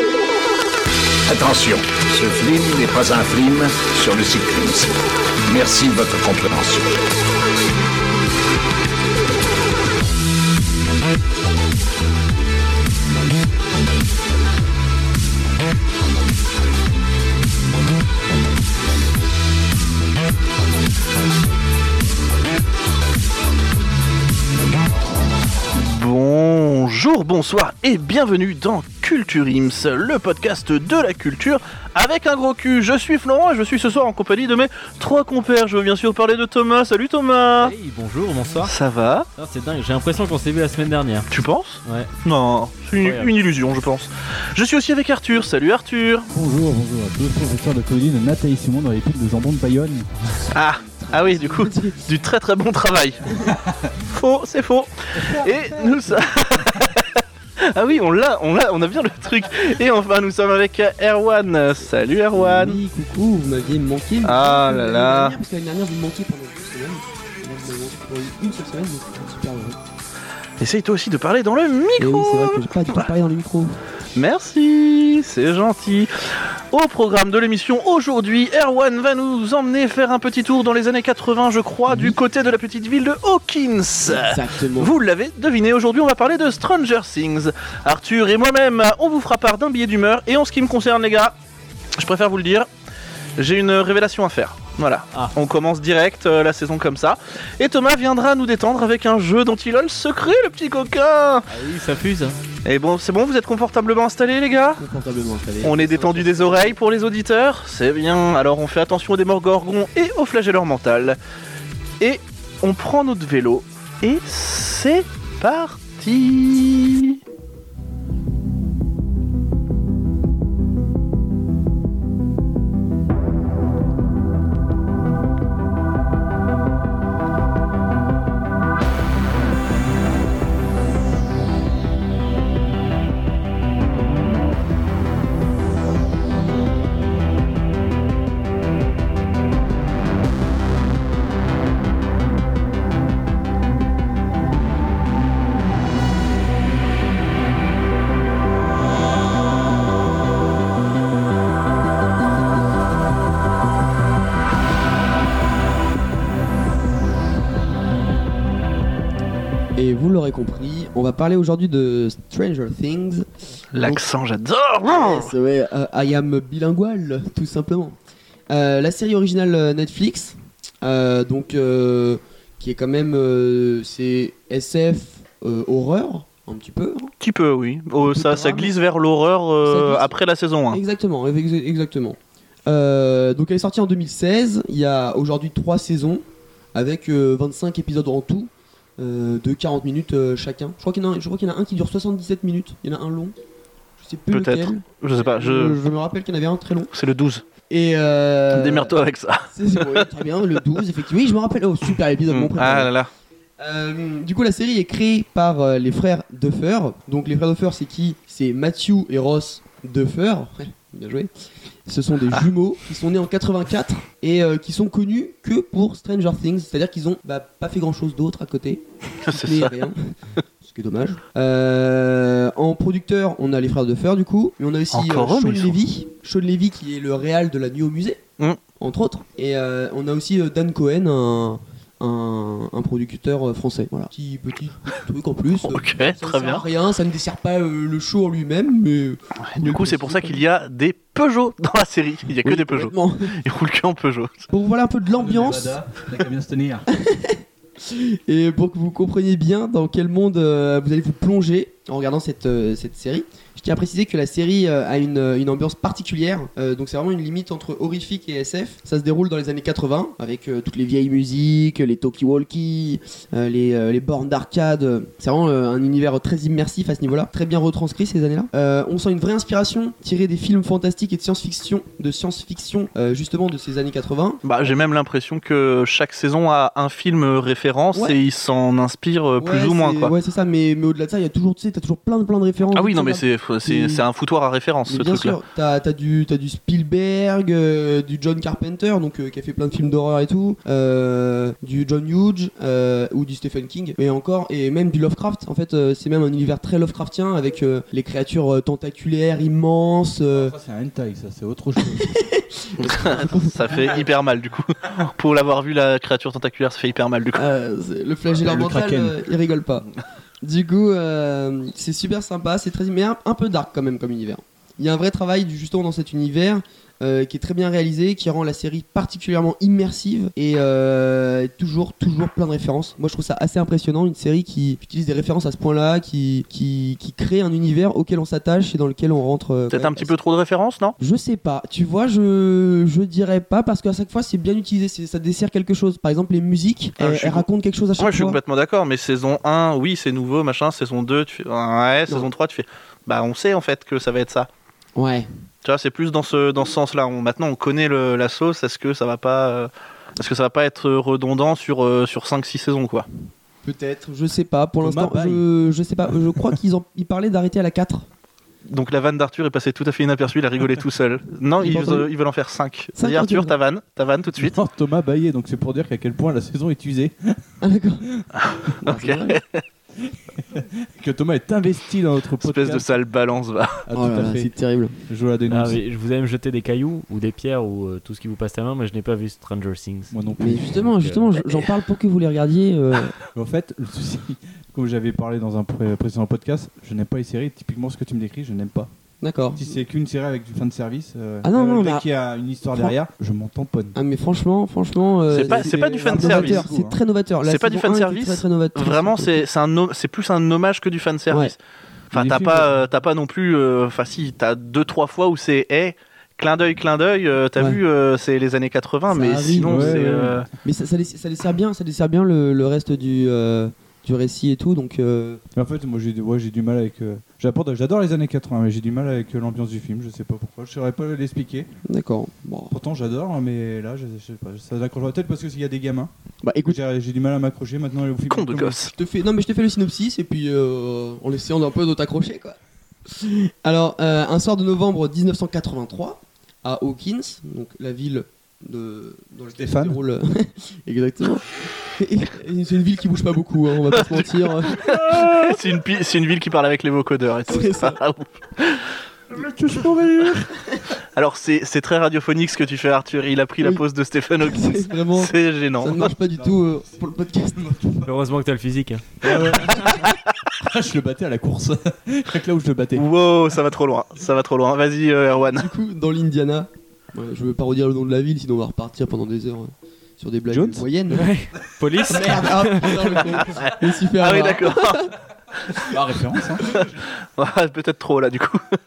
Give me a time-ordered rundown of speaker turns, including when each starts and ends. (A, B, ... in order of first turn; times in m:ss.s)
0:01.3-0:04.9 A
0:05.5-0:06.9 A
0:25.8-0:37.7 B
0:37.6-0:38.7 C
0:38.6-0:39.3 B
0:39.3-0:41.3 C
0:41.3-0:46.3 B
0:41.8-0:42.1 C
0:43.0-0:43.3 C
0:46.3-0:50.1 D
0:50.5-0:52.1 E
0:50.5-0:53.2 B
0:54.1-1:02.8 B
0:55.1-0:55.5 D
1:02.3-1:09.8 E
1:04.2-1:05.3 B
1:10.6-1:13.0 B
1:12.0-1:13.8 E
1:14.1-1:31.3 B
1:21.9-1:22.1 E
1:24.0-1:24.9 E
1:32.0-1:32.7 B
1:33.4-1:41.5 B
1:41.5-1:42.4 C
1:42.6-1:44.8 B
1:44.8-1:46.8 E
1:45.6-1:51.2 B
1:52.0-1:57.2 B
2:39.8-2:43.3 E
2:43.7-2:45.3 B
2:43.8-2:44.0 E
2:44.8-2:48.0 E
2:48.5-2:57.1 E
2:57.2-3:00.8 B
2:58.0-2:58.7 E
2:59.6-3:00.1 E
3:00.7-3:06.2 E
3:06.7-3:13.3 E
3:14.0-3:16.9 E
3:14.3-3:15.8 B
3:16.9-3:17.4 B
3:17.7-3:18.9 E
3:18.5-3:20.1 B
3:19.5-3:22.9 E
3:22.3-3:23.1 B
3:23.6-3:31.3 E
3:31.9-3:48.2 E
3:39.2-3:39.7 B
3:44.9-3:45.8 B
3:48.8-4:00.4 E
3:55.7-3:56.6 B
3:59.4-4:04.4 B
4:02.4-4:03.3 E
4:04.5-4:05.8 E
4:05.2-4:06.9 D
4:06.9-4:34.4 E
4:34.4-4:40.1 B
4:37.9-4:38.2 E
4:39.4-4:44.0 E
4:42.7-4:45.4 B
4:44.9-5:00.5 E
5:00.3-5:02.2 D
5:01.8-5:04.0 E
5:02.8-5:07.4 B
5:07.3-5:09.9 E
5:08.3-5:09.2 D
5:10.4-5:30.1 E
5:29.7-5:30.9 B
5:31.0-5:38.4 E
5:37.0-5:37.5 B
5:38.0-5:44.5 B
5:44.9-5:45.3 E
5:45.6-5:53.0 B
5:53.6-5:58.1 E
5:54.8-5:55.4 D
5:58.6-6:04.6 B
6:01.6-6:02.1 E
6:03.0-6:03.6 E
6:04.4-6:07.4 D
6:07.6-6:08.1 E
6:08.4-6:09.6 B
6:08.8-6:09.4 E
6:10.1-6:12.9 D
6:12.4-6:13.8 B
6:13.9-6:14.5 D
6:13.9-6:14.9 E
6:15.1-6:15.8 D
6:15.5-6:20.1 C
6:20.1-6:21.0 D
6:20.4-6:23.2 E
6:21.0-6:21.3 C
6:23.3-6:28.9 D
6:29.2-6:29.8 E
6:29.6-6:34.0 D
6:31.4-6:32.1 E
6:33.9-6:39.4 E
6:35.3-6:36.6 B
6:35.4-6:37.0 D
6:37.4-6:41.6 B
6:41.3-6:41.5 E
6:42.1-6:50.5 B
6:42.1-6:42.7 D
6:49.1-6:50.0 E
6:49.5-6:50.4 D
6:50.6-6:55.4 E
6:55.5-7:01.7 D
7:01.8-7:02.7 E
7:02.7-7:06.1 D
7:06.4-7:06.8 E
7:06.6-7:08.9 D
7:08.3-7:08.9 B
7:08.9-7:24.8 E
7:19.6-7:20.0 D
7:24.0-7:28.9 B
7:24.8-7:25.3 D
7:27.5-7:28.0 E
7:29.3-7:30.5 D
7:30.5-7:30.8 E
7:31.1-7:36.1 B
7:34.4-7:38.0 E
7:36.3-7:38.1 D
7:38.0-7:39.8 C
7:39.2-7:43.0 D
7:42.9-7:45.7 B
7:45.5-7:51.3 E
7:50.5-7:50.8 D
7:51.1-7:53.2 C
7:52.1-7:55.1 E
7:53.4-7:55.1 B
7:55.8-7:56.8 D
7:56.6-7:58.6 B